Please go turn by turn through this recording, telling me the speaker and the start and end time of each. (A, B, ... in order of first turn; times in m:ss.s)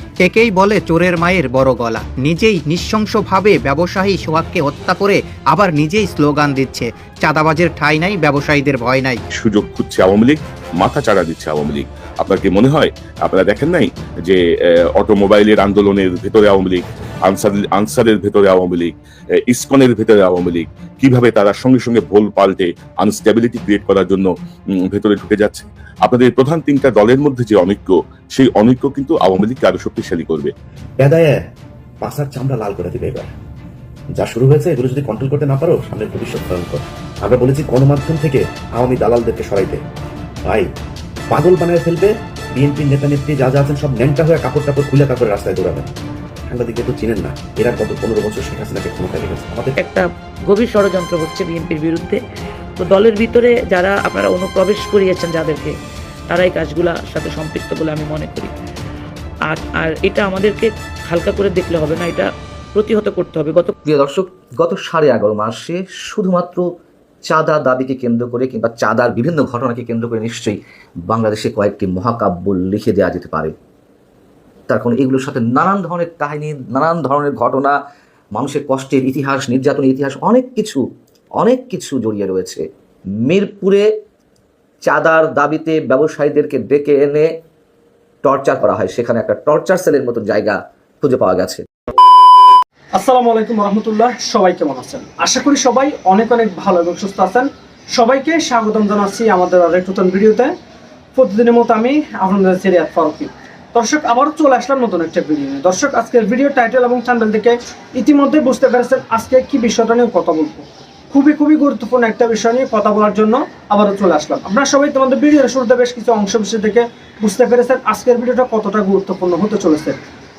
0:00.2-0:09.2 A
0:09.3-0:14.4 B
0:15.0-0:18.9 B
0:19.5-0:30.5 B
0:31.0-0:31.4 C
0:32.0-0:33.3 C
0:34.2-0:39.8 C
0:41.3-0:45.9 C
0:46.5-0:49.8 C
0:49.8-0:52.2 D
0:52.8-0:55.7 D
0:56.3-0:58.5 D
0:59.5-1:03.8 D
1:03.8-1:06.7 E
1:07.3-1:10.6 E
1:11.1-1:13.5 E
1:14.7-1:17.8 E
1:18.3-1:20.8 E
1:21.4-1:22.6 E
1:23.2-1:23.9 E
1:24.8-1:27.3 E
1:28.2-1:31.7 E
1:33.0-1:40.5 F
1:41.2-2:00.0 F